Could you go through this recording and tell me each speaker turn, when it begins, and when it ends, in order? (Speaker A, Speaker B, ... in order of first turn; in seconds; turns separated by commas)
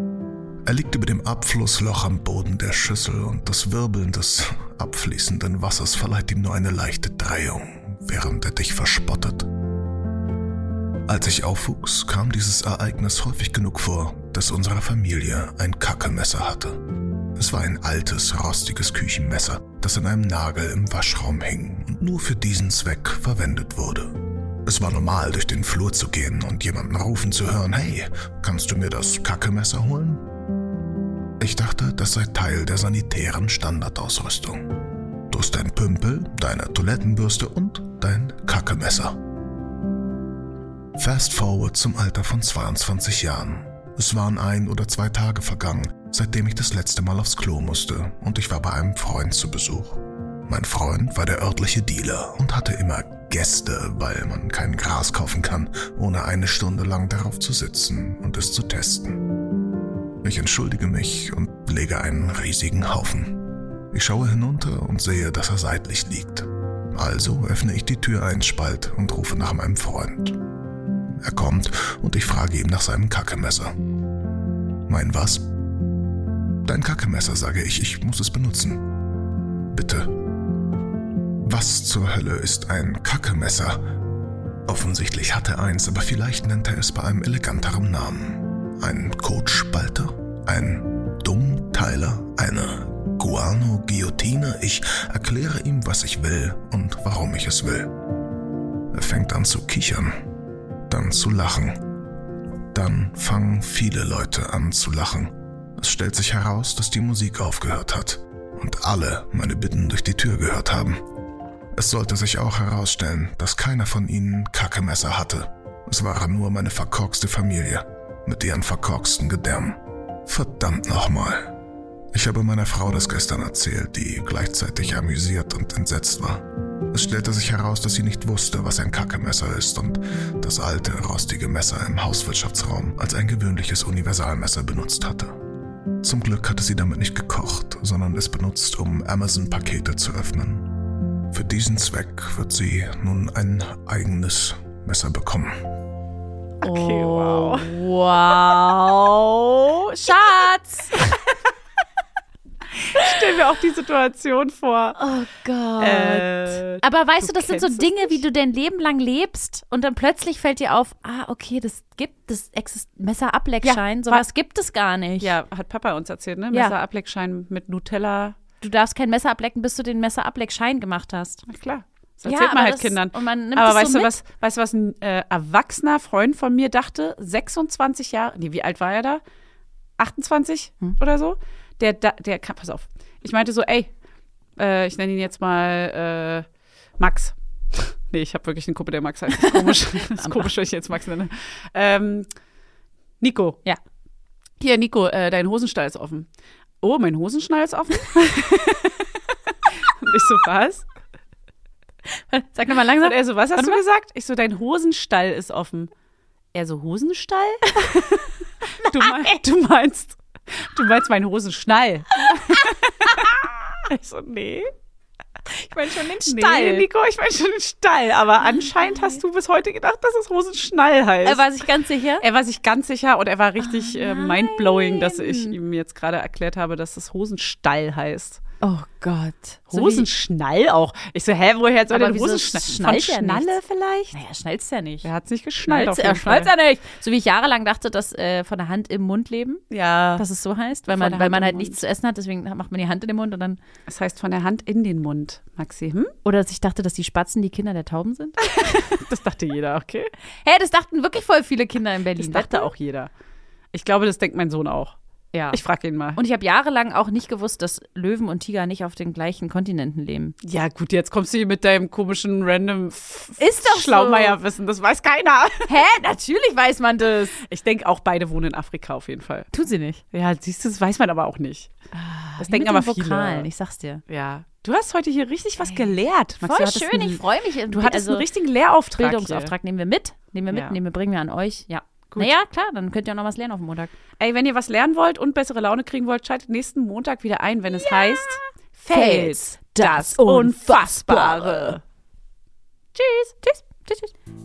Speaker A: 0.7-9.5, Speaker A: 11.1-30.2, Speaker A: 31.4-39.2, Speaker A: 41.0-59.3, Speaker A: 60.2-70.4, Speaker A: 71.2-73.8, Speaker A: 74.9-75.5, Speaker A: 76.6-78.9, Speaker A: 79.7-80.2, Speaker A: 81.4-83.9, Speaker A: 84.7-97.9, Speaker A: 98.9-100.2, Speaker A: 100.9-101.9, Speaker A: 102.7-111.0, Speaker A: 111.7-121.5, Speaker A: 122.1-135.3, Speaker A: 136.0-145.7, Speaker B: 146.6-147.8, Speaker C: 146.6-149.2, Speaker B: 149.1-150.3, Speaker C: 149.8-151.2, Speaker B: 152.8-155.0, Speaker C: 155.0-165.3, Speaker B: 155.8-158.2, Speaker B: 163.6-164.2, Speaker B: 165.2-168.4, Speaker C: 168.6-171.4, Speaker B: 171.5-179.2, Speaker C: 172.2-174.1, Speaker B: 180.0-183.9, Speaker B: 184.6-192.3, Speaker C: 189.3-190.5, Speaker B: 193.2-193.6, Speaker B: 194.6-196.3, Speaker B: 196.8-200.9, Speaker C: 202.3-203.8, Speaker B: 203.0-205.9, Speaker B: 206.5-214.7, Speaker C: 208.8-209.4, Speaker C: 212.3-213.1, Speaker C: 215.5-216.8, Speaker B: 216.3-221.4, Speaker C: 221.2-222.2, Speaker B: 222.2-228.4, Speaker C: 223.6-225.6, Speaker C: 228.6-230.1, Speaker B: 229.7-234.2, Speaker C: 231.9-233.6, Speaker C: 234.1-235.1, Speaker B: 235.0-236.5, Speaker C: 235.6-239.6, Speaker B: 239.7-240.2, Speaker C: 240.2-243.6, Speaker B: 240.9-241.8, Speaker B: 243.9-246.1, Speaker C: 246.2-248.9, Speaker B: 248.5-250.1, Speaker C: 250.4-252.7, Speaker B: 252.2-253.1, Speaker B: 253.7-254.9, Speaker C: 255.3-255.6, Speaker B: 255.5-256.2, Speaker C: 256.1-260.4, Speaker B: 260.4-265.7, Speaker C: 263.4-264.4, Speaker C: 265.7-267.4, Speaker B: 267.4-269.5, Speaker C: 269.5-270.0, Speaker B: 270.1-271.7, Speaker C: 271.9-274.0, Speaker B: 272.4-273.5, Speaker B: 274.1-279.5, Speaker C: 275.6-278.3, Speaker C: 279.0-283.9, Speaker B: 280.5-280.8, Speaker B: 284.2-291.8, Speaker C: 287.7-291.8, Speaker B: 292.9-293.9, Speaker C: 293.4-294.1